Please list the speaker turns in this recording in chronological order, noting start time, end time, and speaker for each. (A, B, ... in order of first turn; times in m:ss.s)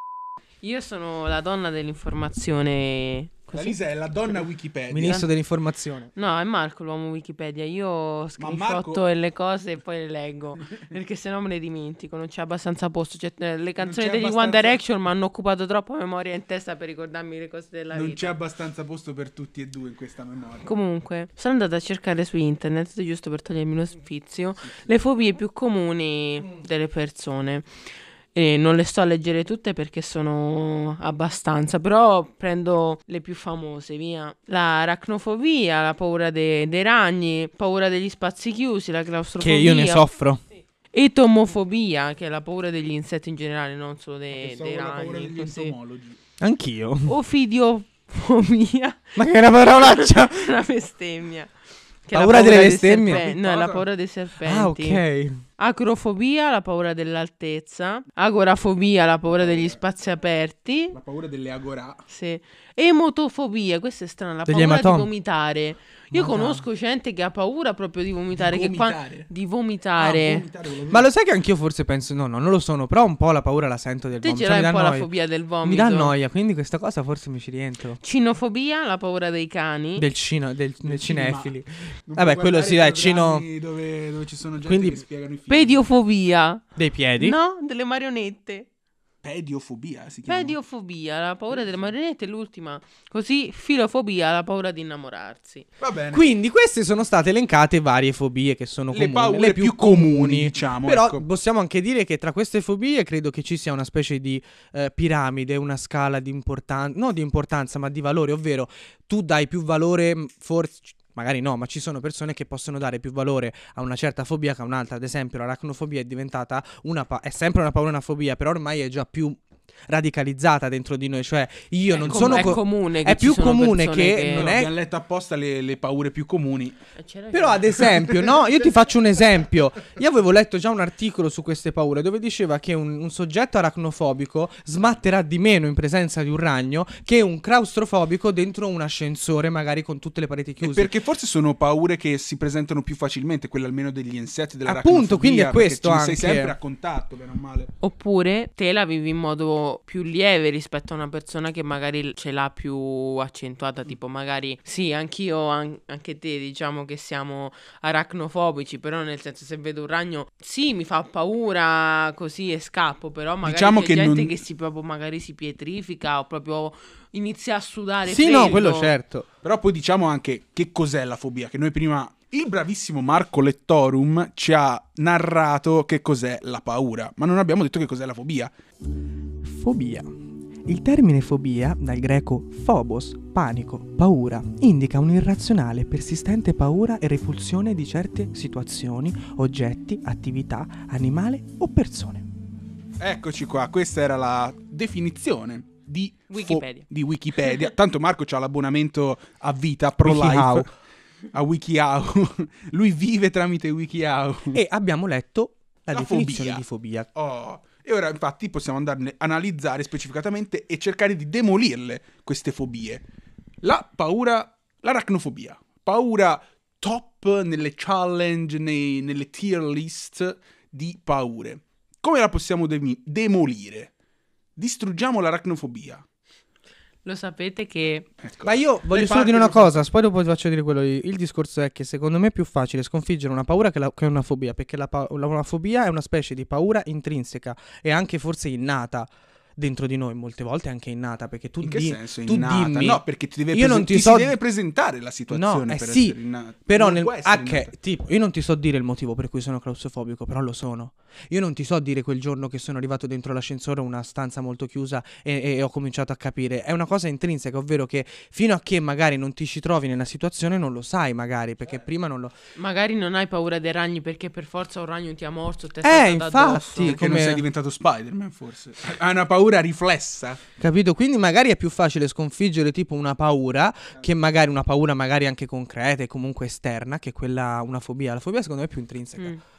0:00.6-0:03.8 A
0:03.5-0:05.3 B
0:04.9-0:06.1 C
0:06.2-0:18.4 A
0:08.4-0:09.0 B
0:13.8-0:14.8 B
0:17.9-0:20.7 B
0:20.6-0:27.7 A
0:28.4-0:40.1 A
0:39.4-0:40.4 C
0:40.9-0:45.8 A
0:44.3-0:46.2 B
0:46.4-0:47.2 C
0:47.1-0:51.5 A
0:49.2-0:50.5 C
0:52.1-0:55.0 A
0:52.1-0:53.2 C
0:53.1-0:53.9 B
0:54.4-0:55.4 C
0:55.6-1:01.0 A
0:59.3-0:59.8 B
1:00.9-1:02.0 B
1:02.1-1:10.5 A
1:04.5-1:05.1 C
1:06.1-1:06.6 C
1:08.4-1:09.3 B
1:10.0-1:11.1 B
1:10.9-1:15.1 C
1:14.2-1:16.2 A
1:15.6-1:18.0 C
1:18.0-1:20.1 A
1:20.0-1:23.5 C
1:20.8-1:21.5 B
1:22.1-1:25.8 B
1:24.6-1:25.0 C
1:25.5-1:26.6 A
1:26.8-1:27.4 C
1:27.2-1:28.7 A
1:29.2-1:30.6 B
1:30.3-1:35.7 A
1:31.5-1:31.8 B
1:35.8-1:36.3 B
1:36.1-2:04.7 C
1:38.9-1:41.2 B
2:02.0-2:02.6 B
2:02.0-2:04.5 A
2:04.3-2:06.8 B
2:07.0-2:07.9 A
2:07.3-2:20.9 C
2:07.8-2:08.6 B
2:20.6-2:27.7 B
2:24.6-2:26.5 C
2:27.8-2:49.0 A
2:43.4-2:44.4 B
2:48.0-2:49.3 C
2:48.3-2:48.6 B
2:49.4-2:58.5 B
2:59.4-3:00.1 C
3:00.7-3:12.3 C
3:13.0-3:20.7 B
3:16.3-3:16.9 A
3:20.0-3:20.7 C
3:21.3-3:24.6 B
3:24.5-3:27.1 C
3:25.9-3:33.0 B
3:33.6-3:43.9 B
3:44.6-3:46.0 B
3:47.0-3:48.1 A
3:48.2-3:49.8 B
3:48.4-4:04.4 C
4:01.6-4:07.7 B
4:05.3-4:22.3 C
4:22.6-4:27.0 A
4:25.8-4:27.4 C
4:26.8-4:30.4 B
4:30.6-4:39.3 C